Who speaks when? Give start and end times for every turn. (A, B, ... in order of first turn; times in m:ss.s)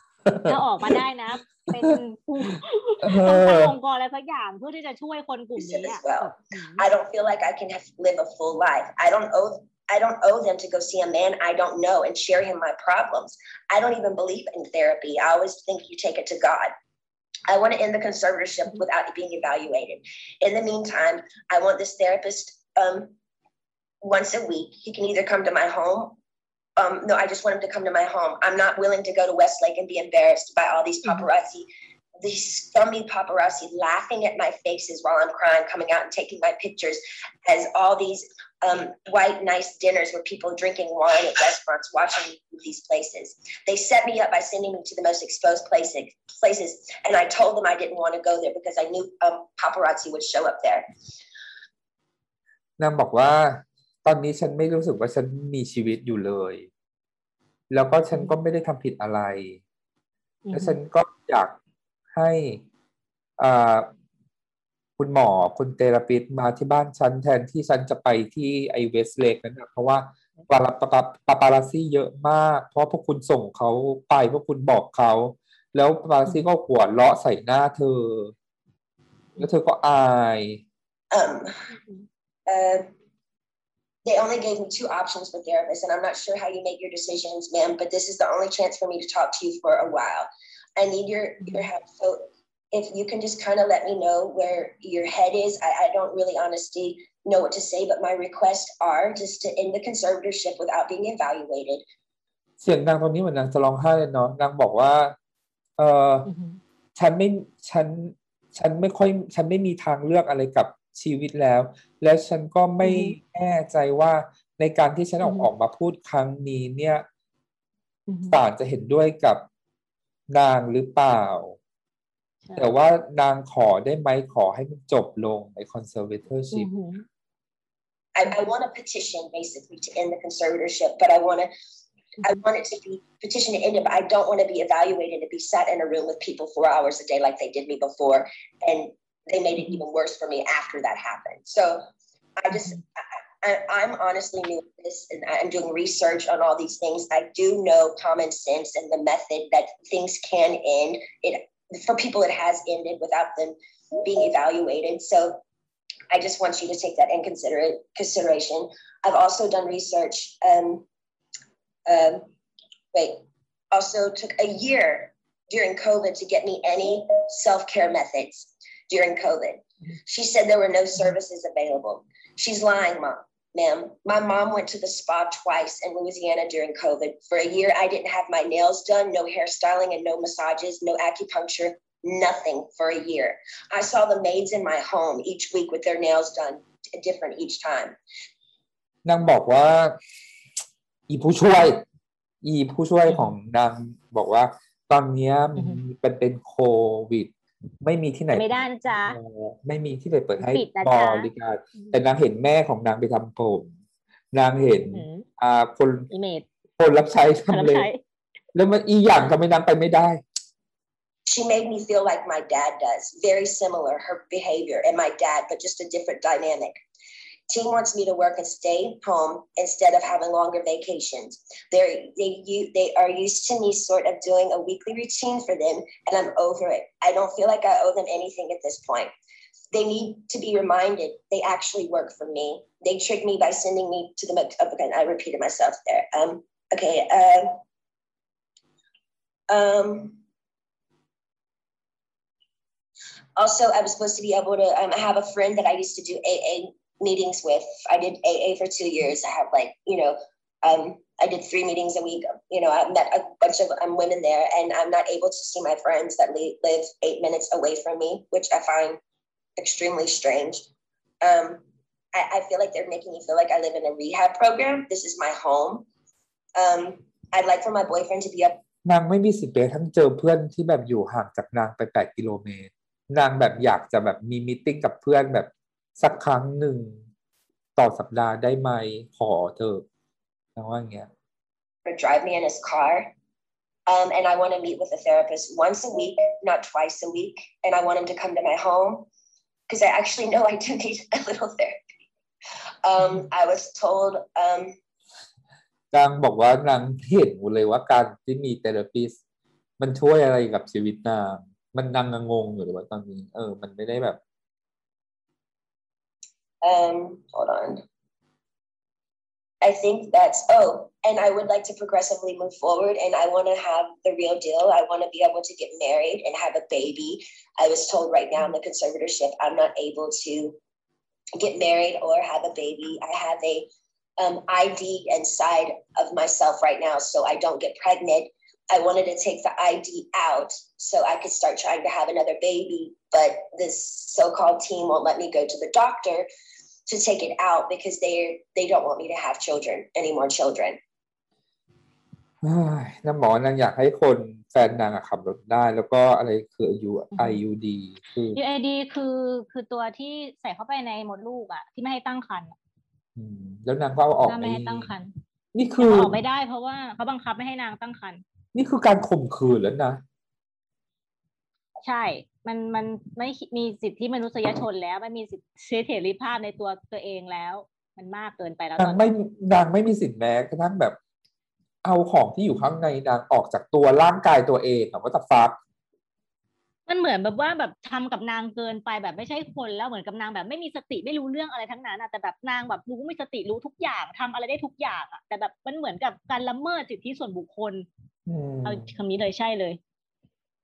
0:00.2-0:01.0 A
0:00.4-0:06.9 B
0:03.0-0:03.7 A
0:05.6-0:16.7 C
0:17.5-0:23.1 C
0:24.0-0:26.2 C
0:26.8-0:31.7 C
0:32.2-0:50.9 C
0:52.8-0:56.7 A
0:57.7-0:59.6 A
1:00.4-1:00.8 B
1:00.5-1:01.5 A
1:02.1-1:02.6 A
1:03.4-1:03.9 A
1:05.0-1:18.3 A
1:19.4-1:20.6 A
1:21.1-1:21.7 C
1:22.5-1:22.9 C
1:24.0-1:41.8 C
1:31.4-1:31.7 B
1:42.6-1:45.1 A
1:45.8-1:46.3 A
1:46.2-1:46.6 B
1:46.9-1:57.0 A
1:52.8-1:53.2 B
1:55.2-1:55.5 B
1:58.1-1:58.4 B
1:58.3-1:59.4 A
2:00.3-2:01.6 A
2:02.6-2:06.7 A
2:06.5-2:07.0 B
2:08.1-2:11.5 C
2:12.2-2:21.8 C
2:22.4-2:22.8 C
2:23.4-2:35.4 C
2:36.1-2:40.8 C
2:41.8-2:42.3 C
2:42.9-3:08.0 C
3:09.0-3:10.0 A
3:11.1-3:11.8 A
3:12.4-3:17.3 A
3:13.1-3:13.3 B
3:15.6-3:15.8 B
3:17.8-3:23.7 A
3:18.3-3:19.2 B
3:20.4-3:22.0 B
3:24.3-3:26.1 A
3:24.8-3:25.2 B
3:26.1-3:26.5 B
3:26.8-3:27.9 A
3:27.5-3:28.0 B
3:28.5-3:30.2 A
3:31.3-3:36.8 C
3:37.5-3:49.1 C
3:49.7-3:57.6 C
3:59.5-4:00.2 C
4:03.4-4:19.0 C
4:19.6-4:20.6 C
4:21.2-4:21.6 C
4:22.1-4:25.8 C
4:26.5-4:28.6 C
4:28.8-4:37.0 A
4:37.8-4:39.8 A
4:40.6-4:41.1 A
4:41.8-4:43.1 C
4:43.9-4:49.1 C
4:49.7-4:51.8 C
4:52.8-4:54.8 C
4:55.9-4:59.2 A
4:59.8-5:04.2 A
5:06.6-5:07.8 C
5:09.6-5:20.6 C
5:21.4-5:23.7 C
5:24.2-5:36.3 C
5:36.9-5:40.8 C
5:42.4-5:48.4 A
5:47.1-5:47.4 B
5:48.3-5:52.5 B
5:53.2-5:54.9 A
5:54.2-5:55.1 B
5:55.5-5:56.2 A
5:55.8-5:58.2 B
5:58.5-6:00.0 A
6:01.8-6:09.0 B
6:08.8-6:11.0 A
6:11.8-6:15.6 A
6:16.9-6:27.9 B
6:28.3-6:28.9 A
6:28.6-6:29.8 B